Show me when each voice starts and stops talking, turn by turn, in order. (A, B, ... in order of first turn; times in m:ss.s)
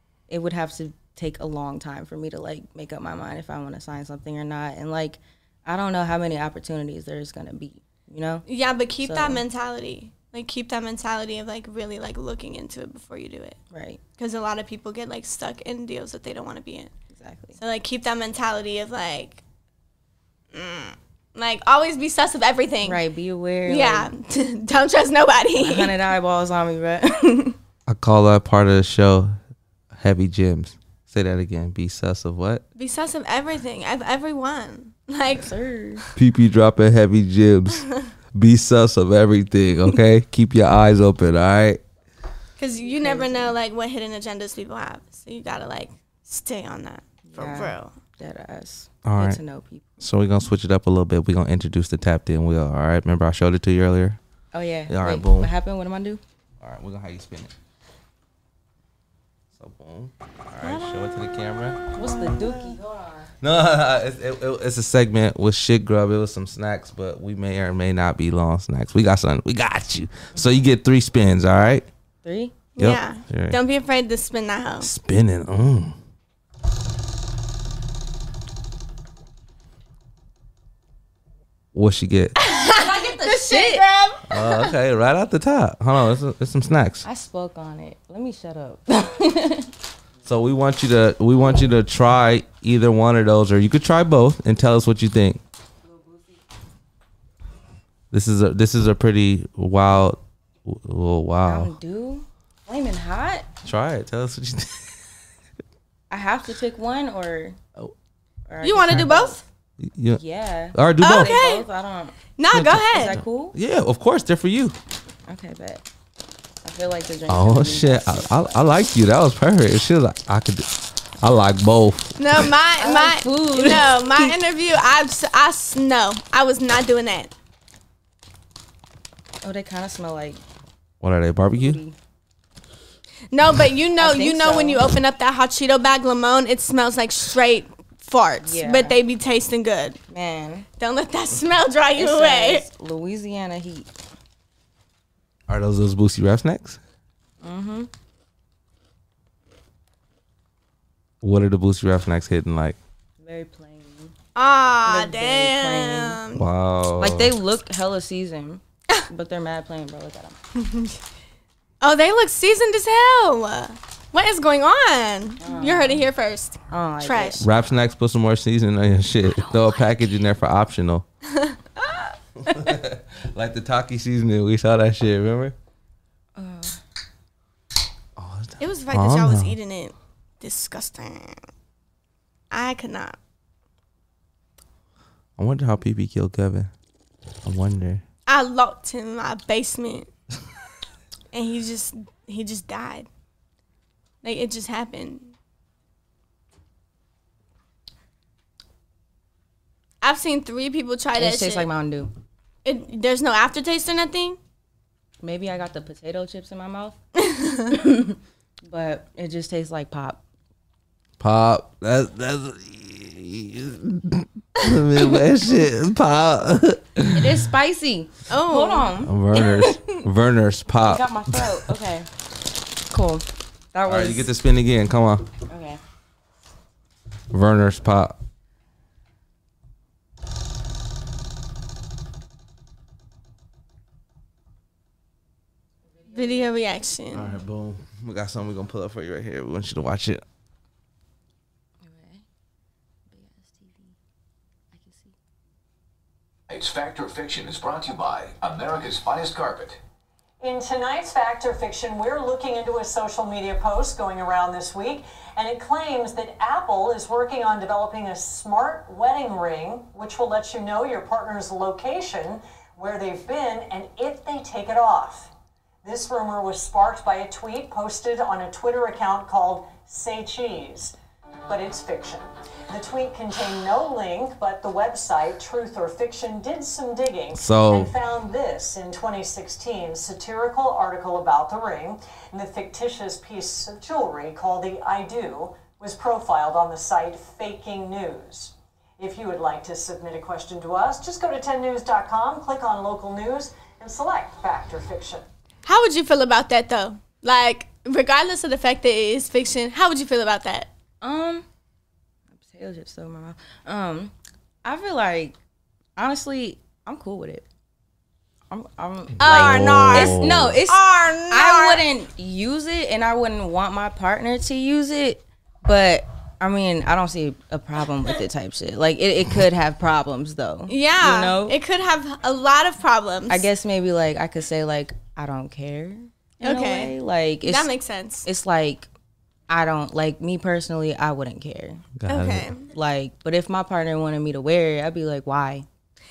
0:00.3-0:08.4 A
0:08.5-0:13.6 B
0:09.0-0:09.4 A
0:13.7-0:14.0 A
0:14.2-0:16.9 B
0:17.1-0:17.6 A
0:17.6-0:19.4 B
0:20.5-0:23.0 B
0:22.8-0:24.1 A
0:23.6-0:26.0 B
0:25.6-0:27.6 A
0:27.9-0:29.4 C
0:29.9-0:32.6 C
0:32.8-0:35.5 B
0:35.3-0:36.0 A
0:36.2-0:41.8 C
0:42.6-0:47.9 B
0:42.9-0:43.5 A
0:47.2-0:50.0 A
0:49.0-0:49.4 C
0:50.0-0:54.2 C
0:54.5-0:56.2 A
0:54.9-0:55.5 C
0:56.6-0:57.5 C
0:59.5-1:01.8 C
1:00.6-1:01.0 B
1:01.9-1:03.3 A
1:02.0-1:02.7 B
1:03.4-1:11.9 C
1:12.2-1:12.5 A
1:12.8-1:14.9 B
1:12.8-1:13.6 C
1:14.8-1:16.0 C
1:21.7-1:22.3 C
1:22.4-1:24.7 B
1:22.7-1:23.8 A
1:24.3-1:27.0 C
1:27.0-1:29.7 A
1:30.2-1:35.4 C
1:35.9-1:36.4 A
1:38.1-1:41.7 C
1:41.4-1:43.5 A
1:43.6-1:45.1 C
1:46.1-1:47.6 A
1:48.5-1:49.4 A
1:48.6-1:49.4 B
1:49.8-1:50.2 C
1:50.1-1:52.2 A
1:50.7-1:51.4 C
1:51.0-1:51.7 B
1:52.4-1:53.2 B
1:52.5-1:54.8 C
1:52.9-1:53.5 A
1:55.3-1:55.8 A
1:56.6-1:58.6 A
1:57.3-2:02.5 C
2:02.2-2:07.3 B
2:02.8-2:04.3 A
2:09.4-2:10.4 A
2:11.0-2:11.8 C
2:11.5-2:12.0 A
2:13.3-2:20.0 B
2:14.0-2:14.8 A
2:18.4-2:19.0 A
2:20.1-2:20.6 A
2:20.8-2:22.7 B
2:22.0-2:23.9 A
2:25.5-2:26.8 C
2:27.4-2:27.9 A
2:31.2-2:32.8 C
2:33.2-2:34.1 A
2:34.3-2:36.5 B
2:34.8-2:36.2 A
2:36.4-2:37.3 C
2:37.0-2:40.4 A
2:40.5-2:41.0 B
2:41.8-2:47.4 B
2:45.4-2:46.0 A
2:46.7-2:47.4 A
2:47.4-2:51.0 C
2:51.3-2:52.1 B
2:52.4-2:55.5 C
2:56.4-2:56.8 A
2:58.2-2:59.6 C
2:58.6-3:01.4 B
3:02.5-3:03.2 B
3:05.4-3:06.7 C
3:07.4-3:08.0 C
3:08.3-3:10.1 B
3:11.3-3:13.1 B
3:14.2-3:15.3 B
3:20.0-3:21.7 B
3:21.1-3:22.1 A
3:22.6-3:24.4 B
3:25.2-3:27.0 A
3:27.2-3:27.8 B
3:27.7-3:30.2 A
3:31.2-3:37.4 C
3:37.1-3:40.0 A
3:38.3-3:38.9 B
3:39.0-3:41.7 C
3:40.8-3:42.1 A
3:42.9-3:44.3 A
3:43.8-3:45.3 C
3:45.5-3:45.8 A
3:47.3-3:48.2 C
3:56.1-3:57.3 B
3:57.1-4:00.2 C
4:01.8-4:02.2 A
4:03.1-4:04.0 A
4:04.7-4:05.2 A
4:06.5-4:09.8 D
4:10.4-4:25.3 E
4:25.8-4:30.9 E
4:31.5-4:55.2 E
4:37.3-4:37.9 C
4:55.6-5:00.7 B
5:01.0-5:01.4 A
5:02.3-5:05.4 A
5:06.0-5:07.4 A
5:08.5-5:21.6 A
5:09.2-5:10.6 C
5:09.2-5:11.8 B
5:20.7-5:23.5 B
5:23.3-5:27.7 A
5:26.4-5:28.2 B
5:28.2-5:28.9 A
5:29.5-5:31.8 A
5:32.0-5:32.5 C
5:32.1-5:32.7 B
5:32.7-5:35.6 A